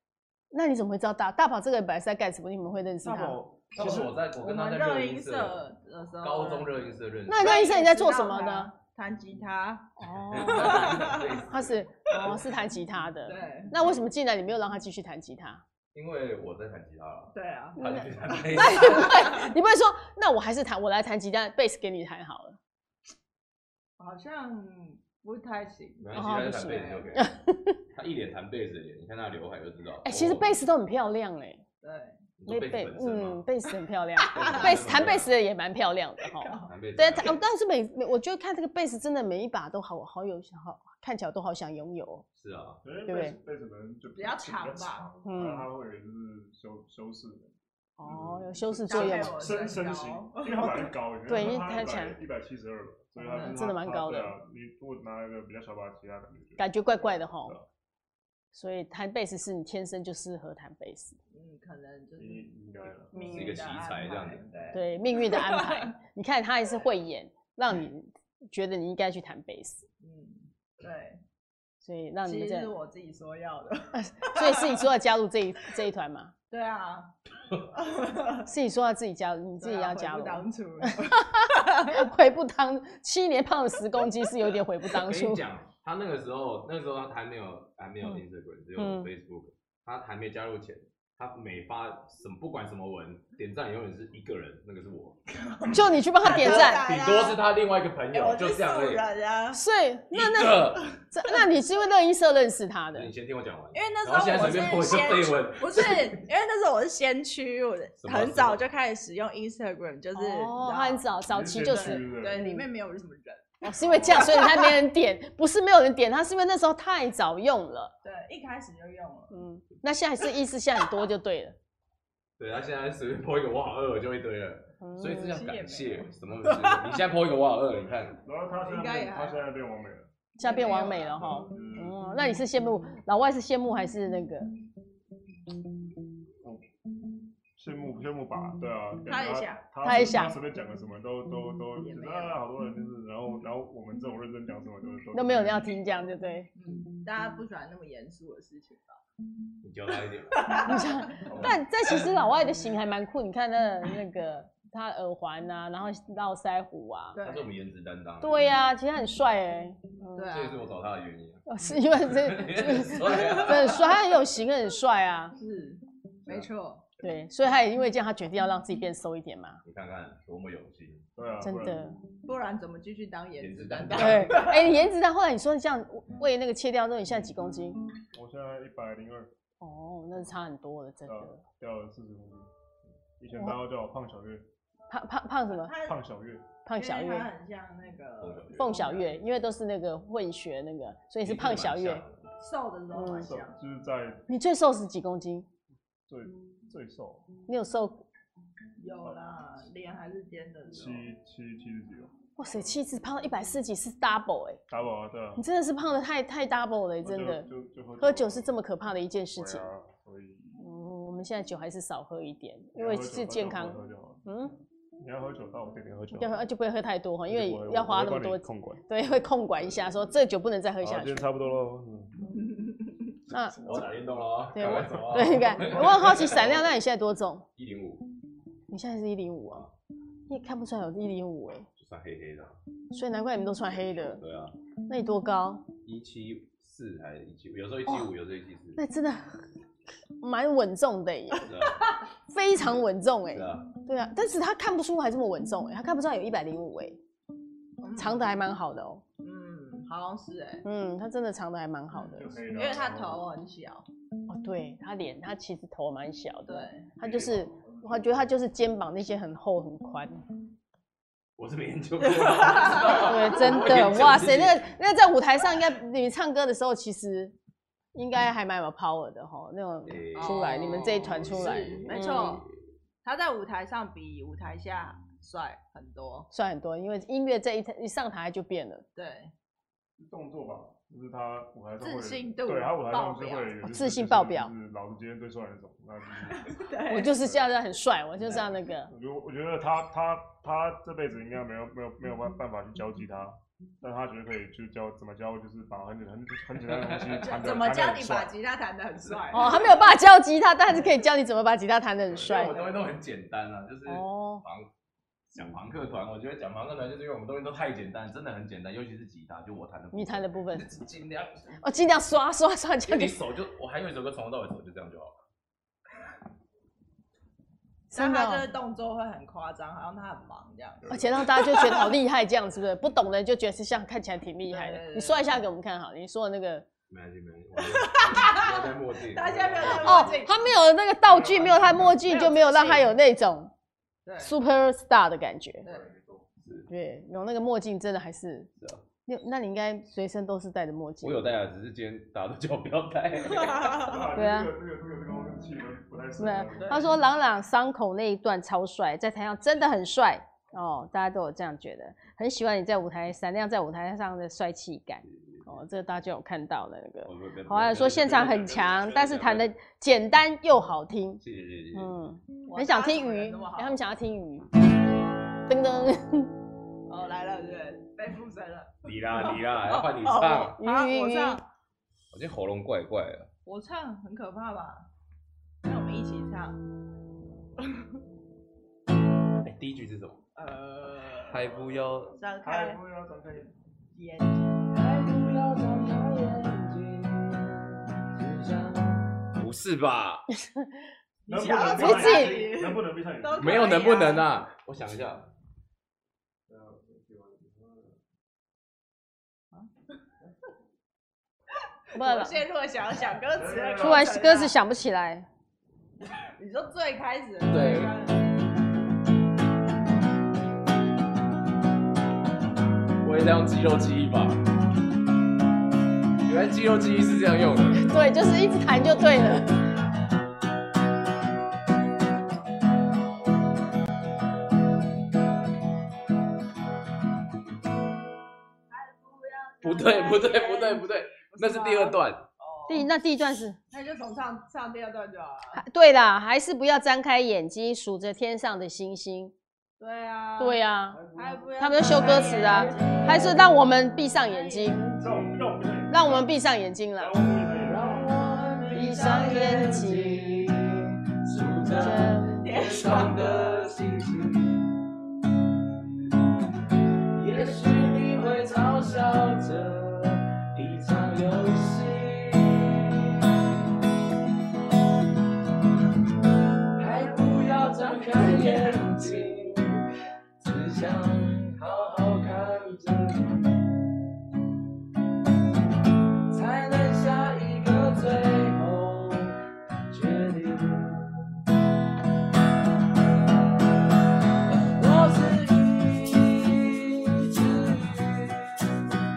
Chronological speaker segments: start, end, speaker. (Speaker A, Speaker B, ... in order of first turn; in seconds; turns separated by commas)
Speaker A: 0.5-3.4, Speaker B: 3.0-4.2, Speaker C: 3.7-5.6, Speaker D: 3.9-11.4, Speaker C: 6.2-7.6, Speaker A: 7.3-8.7, Speaker A: 10.0-15.6, Speaker C: 10.3-12.3, Speaker D: 13.2-13.7, Speaker C: 15.9-19.2, Speaker D: 17.3-19.4, Speaker A: 17.8-22.6, Speaker D: 24.0-27.1, Speaker C: 26.0-27.3, Speaker A: 26.1-27.8, Speaker C: 27.9-30.6, Speaker A: 30.0-31.6, Speaker D: 31.8-32.2, Speaker C: 32.4-33.5, Speaker A: 32.5-42.2, Speaker D: 34.2-34.9, Speaker C: 34.3-35.3, Speaker D: 36.2-36.8, Speaker C: 36.6-37.4, Speaker C: 42.3-42.8, Speaker B: 42.8-56.7, Speaker A: 43.0-43.4, Speaker D: 44.1-45.1, Speaker A: 45.2-45.7, Speaker A: 48.0-49.4, Speaker D: 48.9-50.9, Speaker A: 51.3-52.2, Speaker A: 53.2-54.3, Speaker D: 53.2-53.5, Speaker A: 56.6-57.5, Speaker B: 57.4-57.7, Speaker A: 58.5-61.2, Speaker D: 61.3-65.9, Speaker B: 62.2-63.1, Speaker A: 63.1-63.6, Speaker C: 63.2-64.5, Speaker A: 64.7-69.8, Speaker D: 70.0-71.2, Speaker A: 71.8-72.7, Speaker D: 72.2-74.8, Speaker A: 73.9-76.3, Speaker D: 76.5-77.1, Speaker D: 77.7-78.5, Speaker A: 78.4-85.4, Speaker D: 79.6-82.1, Speaker C: 84.9-95.2, Speaker A: 88.8-89.1, Speaker D: 95.3-97.4, Speaker A: 95.7-96.8, Speaker C: 96.2-99.0, Speaker D: 98.1-99.6, Speaker A: 99.5-103.1, Speaker C: 100.1-100.9, Speaker C: 102.9-106.2, Speaker D: 103.7-111.0, Speaker C: 108.0-108.6, Speaker A: 110.1-112.7, Speaker B: 111.3-112.4, Speaker D: 111.6-114.8, Speaker A: 113.6-117.9, Speaker B: 113.9-114.2, Speaker D: 118.0-119.3, Speaker A: 119.3-121.5, Speaker C: 122.4-128.2, Speaker A: 124.8-125.4, Speaker D: 125.2-127.0, Speaker B: 128.2-130.1, Speaker D: 128.6-129.5, Speaker A: 130.4-134.5, Speaker D: 130.4-131.4, Speaker B: 130.9-132.0, Speaker B: 137.6-145.7, Speaker D: 139.1-139.7, Speaker A: 139.8-140.4, Speaker D: 141.8-142.4, Speaker A: 145.1-146.5, Speaker D: 146.5-149.0, Speaker C: 149.6-151.6, Speaker D: 150.3-150.9, Speaker A: 150.6-157.2, Speaker B: 151.2-151.6, Speaker D: 157.1-157.5, Speaker C: 157.2-158.4, Speaker A: 158.2-160.3, Speaker D: 160.1-160.7, Speaker C: 160.3-164.0, Speaker A: 161.5-165.3, Speaker D: 163.1-163.8, Speaker D: 165.4-166.8, Speaker A: 167.0-169.6, Speaker C: 169.6-171.1, Speaker B: 171.2-171.8, Speaker A: 171.4-172.0, Speaker D: 172.2-174.8, Speaker C: 173.4-174.7, Speaker A: 173.9-177.8, Speaker B: 178.1-179.3, Speaker A: 179.6-181.4, Speaker B: 181.1-182.5, Speaker B: 183.2-184.5, Speaker A: 184.9-185.7, Speaker D: 185.5-186.0, Speaker B: 185.8-186.4, Speaker A: 186.6-187.3, Speaker D: 186.8-188.9, Speaker C: 188.2-189.2, Speaker A: 188.5-192.0, Speaker C: 191.2-192.3, Speaker D: 192.4-193.6, Speaker A: 192.9-193.3, Speaker B: 193.2-194.2, Speaker A: 194.3-195.5, Speaker B: 196.1-197.2, Speaker A: 197.5-198.0, Speaker D: 198.8-201.1, Speaker B: 200.7-202.1, Speaker A: 202.4-204.6, Speaker B: 204.7-205.4, Speaker A: 205.3-207.4, Speaker B: 207.0-208.5, Speaker A: 208.0-209.7, Speaker B: 209.3-210.6, Speaker A: 210.6-214.6, Speaker B: 212.7-214.2, Speaker B: 215.0-216.4, Speaker A: 216.1-221.3, Speaker B: 217.3-218.8, Speaker B: 220.8-222.1, Speaker A: 223.3-223.8, Speaker C: 223.6-226.7, Speaker A: 224.5-227.4, Speaker C: 227.6-228.1, Speaker A: 228.7-229.6, Speaker A: 230.3-231.7, Speaker C: 231.8-232.6, Speaker A: 232.9-234.2, Speaker C: 233.9-234.5, Speaker A: 234.9-235.7, Speaker C: 235.8-238.8, Speaker A: 238.8-239.5, Speaker A: 240.2-241.5, Speaker C: 241.4-241.9, Speaker A: 242.3-247.0, Speaker C: 243.3-243.7, Speaker D: 247.8-248.3, Speaker A: 247.9-249.0, Speaker D: 249.2-250.6, Speaker A: 250.6-252.4, Speaker D: 251.9-253.8, Speaker B: 252.1-253.3, Speaker A: 254.3-260.2, Speaker D: 256.5-256.9, Speaker B: 257.0-258.2, Speaker C: 261.4-264.7, Speaker D: 262.2-263.5, Speaker A: 262.9-267.3, Speaker A: 267.9-272.4, Speaker C: 269.9-272.6, Speaker D: 270.1-272.4, Speaker D: 273.0-276.3, Speaker A: 276.3-278.8, Speaker D: 278.9-279.3, Speaker B: 280.0-286.6, Speaker D: 281.8-283.5, Speaker A: 283.6-284.5, Speaker D: 286.3-287.1, Speaker A: 286.9-288.9, Speaker B: 287.2-287.5, Speaker B: 288.2-298.3, Speaker C: 296.6-297.3, Speaker D: 297.2-299.7, Speaker C: 299.0-299.7, Speaker A: 299.3-302.6, Speaker C: 302.1-304.7, Speaker A: 303.9-304.4, Speaker C: 305.3-311.6, Speaker A: 309.9-310.7, Speaker A: 311.6-313.2, Speaker C: 312.9-315.1, Speaker A: 317.9-318.4, Speaker D: 317.9-321.9, Speaker B: 320.9-321.2, Speaker A: 320.9-326.6, Speaker D: 324.5-325.4, Speaker C: 326.9-330.2, Speaker D: 327.6-330.4, Speaker A: 329.8-333.5, Speaker B: 331.0-332.0, Speaker D: 332.0-332.9, Speaker D: 334.1-334.3, Speaker A: 334.2-335.6, Speaker D: 335.6-335.9, Speaker B: 335.6-336.3, Speaker C: 336.4-336.7, Speaker A: 336.7-338.5, Speaker C: 338.6-338.8, Speaker A: 339.1-341.3, Speaker C: 341.0-344.0, Speaker D: 343.3-344.0, Speaker B: 343.7-346.9, Speaker A: 344.1-344.5, Speaker A: 346.2-361.2, Speaker D: 346.6-346.9, Speaker C: 355.0-355.5, Speaker C: 357.0-359.5, Speaker C: 361.2-361.9, Speaker A: 361.7-364.5, Speaker D: 362.4-363.8, Speaker A: 365.5-366.3, Speaker D: 366.9-371.4, Speaker C: 368.8-370.6, Speaker A: 370.6-371.4, Speaker C: 372.1-373.3, Speaker D: 373.4-374.9, Speaker D: 375.6-376.6, Speaker C: 379.4-380.2, Speaker D: 380.4-381.5, Speaker E: 381.3-382.1, Speaker C: 381.3-382.1, Speaker B: 381.6-383.5, Speaker D: 382.2-382.8, Speaker D: 383.9-384.6, Speaker E: 384.7-389.3, Speaker C: 389.4-390.2, Speaker A: 390.3-390.7, Speaker D: 391.2-394.3, Speaker B: 391.3-393.7, Speaker A: 391.8-392.4, Speaker C: 393.4-395.3, Speaker B: 396.5-397.9, Speaker A: 401.9-402.4, Speaker D: 401.9-404.5, Speaker B: 403.3-404.1, Speaker A: 403.8-405.3, Speaker D: 406.4-408.3, Speaker C: 407.5-407.9, Speaker C: 413.0-414.4, Speaker C: 416.2-417.9, Speaker A: 417.7-419.6, Speaker D: 428.7-432.9, Speaker C: 429.6-432.2, Speaker A: 432.7-433.6, Speaker D: 433.7-435.6, Speaker A: 435.5-439.3, Speaker D: 439.8-440.6, Speaker A: 440.4-441.0, Speaker B: 440.9-441.7, Speaker D: 441.1-443.5, Speaker A: 441.6-445.0, Speaker E: 442.4-443.4, Speaker D: 444.0-445.1, Speaker B: 445.0-446.3, Speaker A: 445.9-447.1, Speaker B: 446.9-448.1, Speaker E: 447.6-454.6, Speaker A: 448.7-450.6, Speaker A: 451.7-452.3, Speaker D: 452.4-453.6, Speaker E: 457.1-463.2, Speaker E: 466.8-469.8, Speaker D: 467.5-469.1, Speaker E: 470.4-473.4, Speaker E: 476.3-479.4, Speaker E: 479.9-481.1, Speaker E: 484.5-488.6